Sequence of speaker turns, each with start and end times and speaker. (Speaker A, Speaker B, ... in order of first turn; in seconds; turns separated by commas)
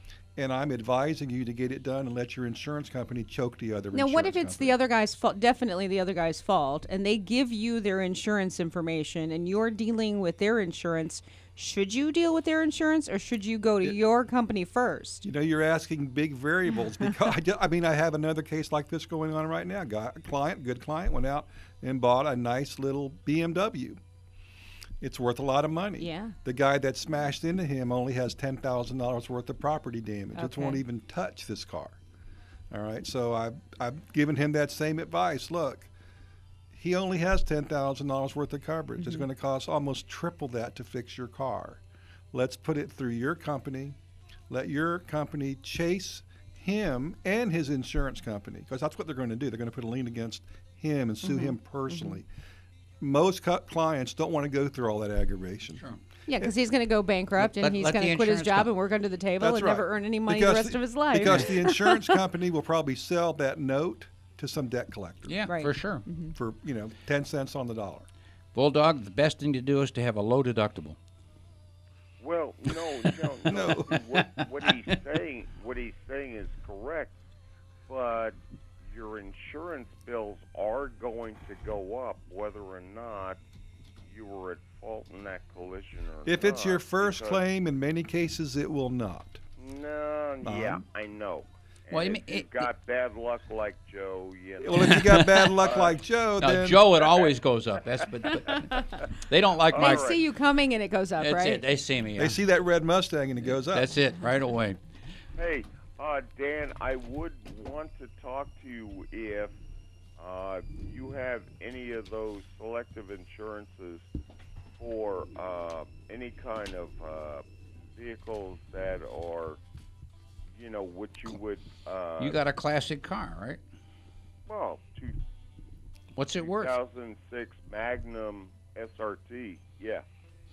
Speaker A: 0.4-4.8, Speaker B: 3.9-15.2, Speaker A: 15.2-24.0, Speaker A: 25.0-31.9, Speaker B: 26.0-26.3, Speaker B: 30.4-30.8, Speaker A: 32.7-35.9, Speaker A: 36.7-41.8, Speaker A: 42.3-44.0, Speaker A: 44.5-52.3, Speaker B: 51.2-52.1, Speaker A: 53.0-55.8, Speaker B: 56.3-62.2, Speaker C: 57.4-58.7, Speaker A: 59.4-65.4, Speaker C: 65.3-66.0, Speaker B: 65.5-66.3, Speaker A: 66.3-68.1, Speaker C: 68.5-71.0, Speaker D: 72.2-77.1, Speaker A: 73.5-73.9, Speaker C: 73.7-74.4, Speaker D: 77.9-83.4, Speaker D: 84.1-87.4, Speaker A: 86.2-89.4, Speaker D: 89.6-95.0, Speaker A: 90.4-90.8, Speaker C: 91.9-92.7, Speaker A: 94.6-96.8, Speaker C: 94.8-95.6, Speaker D: 95.6-96.0, Speaker C: 96.4-100.1, Speaker D: 97.0-97.3, Speaker D: 98.2-98.5, Speaker B: 98.5-98.8, Speaker D: 99.7-100.2, Speaker B: 99.8-101.6, Speaker C: 101.2-102.4, Speaker A: 102.2-103.9, Speaker C: 103.4-104.8, Speaker D: 105.4-109.5, Speaker D: 110.2-114.0, Speaker D: 114.8-117.4, Speaker D: 117.9-119.6, Speaker D: 120.6-122.4, Speaker C: 122.2-123.6, Speaker D: 124.5-125.2, Speaker C: 126.2-126.7, Speaker D: 126.4-130.0